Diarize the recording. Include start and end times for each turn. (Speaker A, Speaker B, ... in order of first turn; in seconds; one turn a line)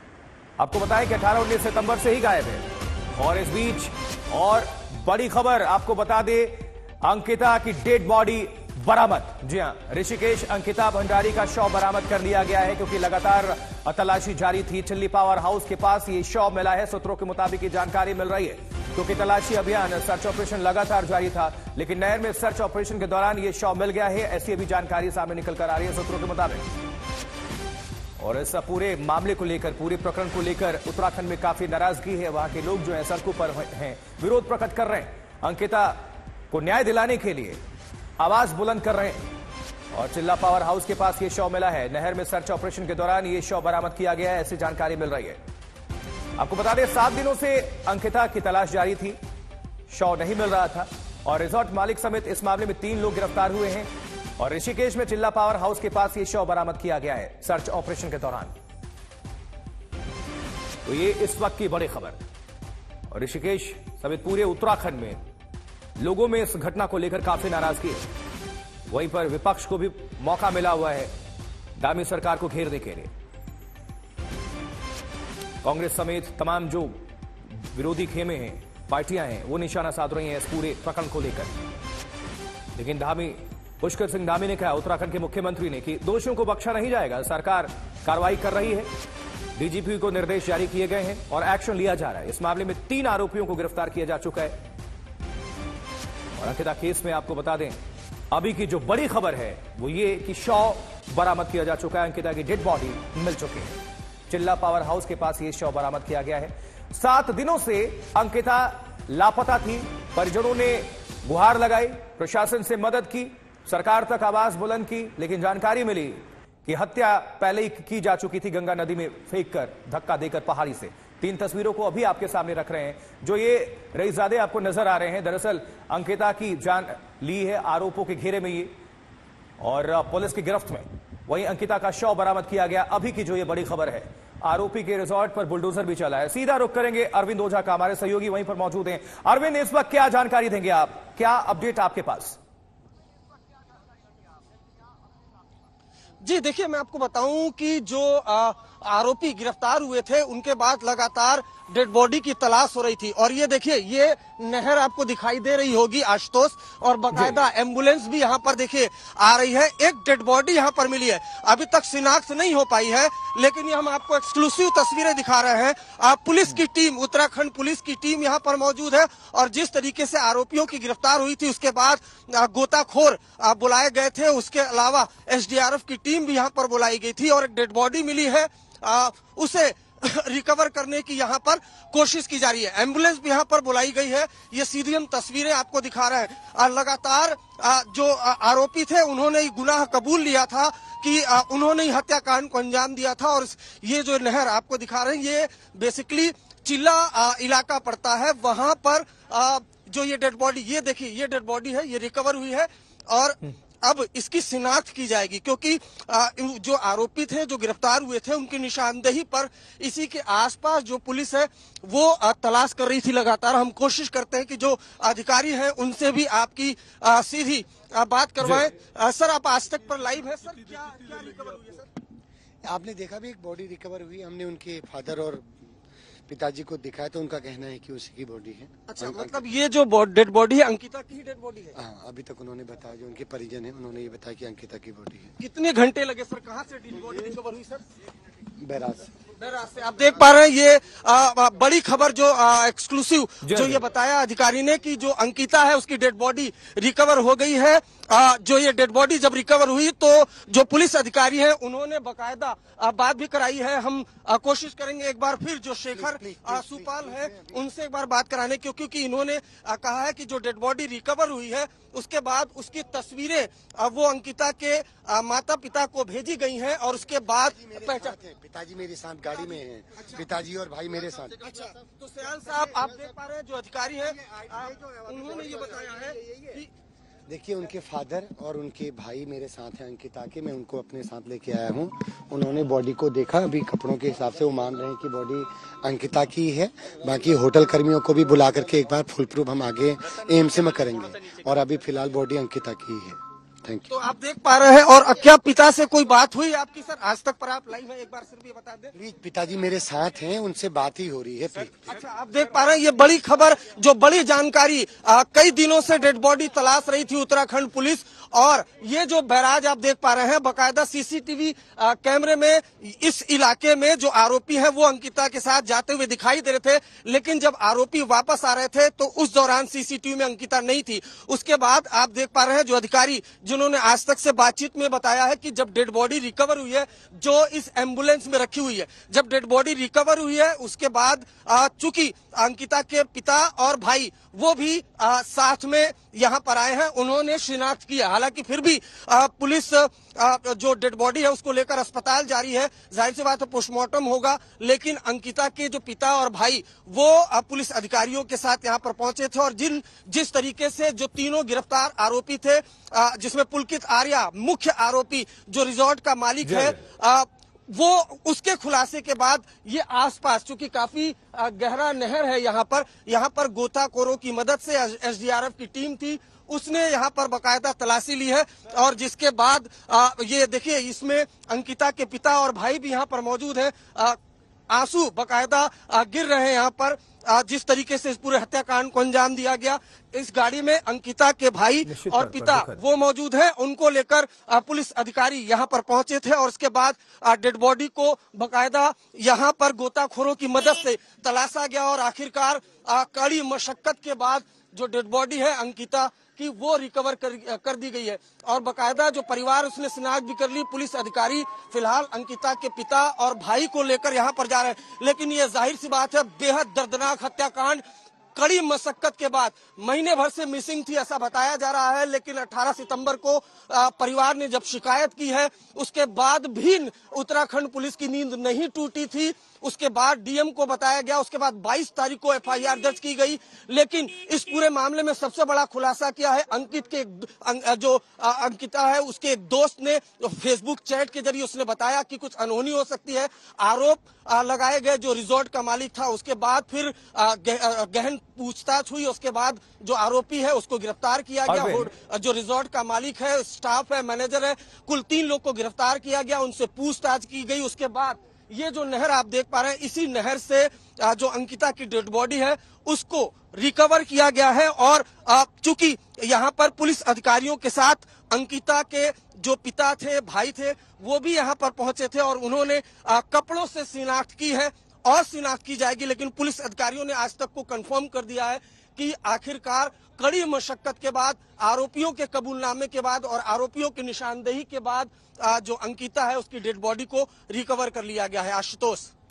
Speaker A: 0.6-26.6
Speaker A: 28.2-37.6
Speaker A: 38.2-39.2
Speaker A: 39.9-45.4
Speaker A: 46.4-49.2
Speaker A: 49.9-58.5
Speaker A: 60.9-62.2
Speaker A: 63.1-65.2
Speaker A: 66.0-68.1
Speaker A: 68.9-71.1
Speaker A: 71.8-73.1
Speaker A: 75.6-81.5
Speaker A: 82.7-88.9
Speaker A: 89.5-94.6
Speaker A: 96.4-97.8
Speaker A: 98.3-128.7
Speaker A: 129.6-142.4
Speaker B: 146.2-221.9
Speaker A: 157.1-157.4
Speaker A: 218.4-218.7
Speaker C: 222.6-225.7
Speaker C: 226.3-229.4
Speaker B: 228.9-231.8
Speaker C: 231.7-235.3
Speaker B: 235.4-237.8
Speaker C: 238.6-239.1
Speaker B: 239.4-268.1
Speaker A: 243.4-243.8
Speaker C: 256.0-257.5
Speaker C: 267.6-271.5
Speaker B: 271.4-276.7
Speaker C: 277.3-293.9
Speaker B: 293.9-298.9
Speaker C: 298.9-302.0
Speaker B: 301.9-374.2
Speaker A: 356.4-356.8
Speaker B: 374.7-407.8
Speaker A: 381.9-382.8
Speaker B: 408.4-479.1
Speaker A: 441.5-441.9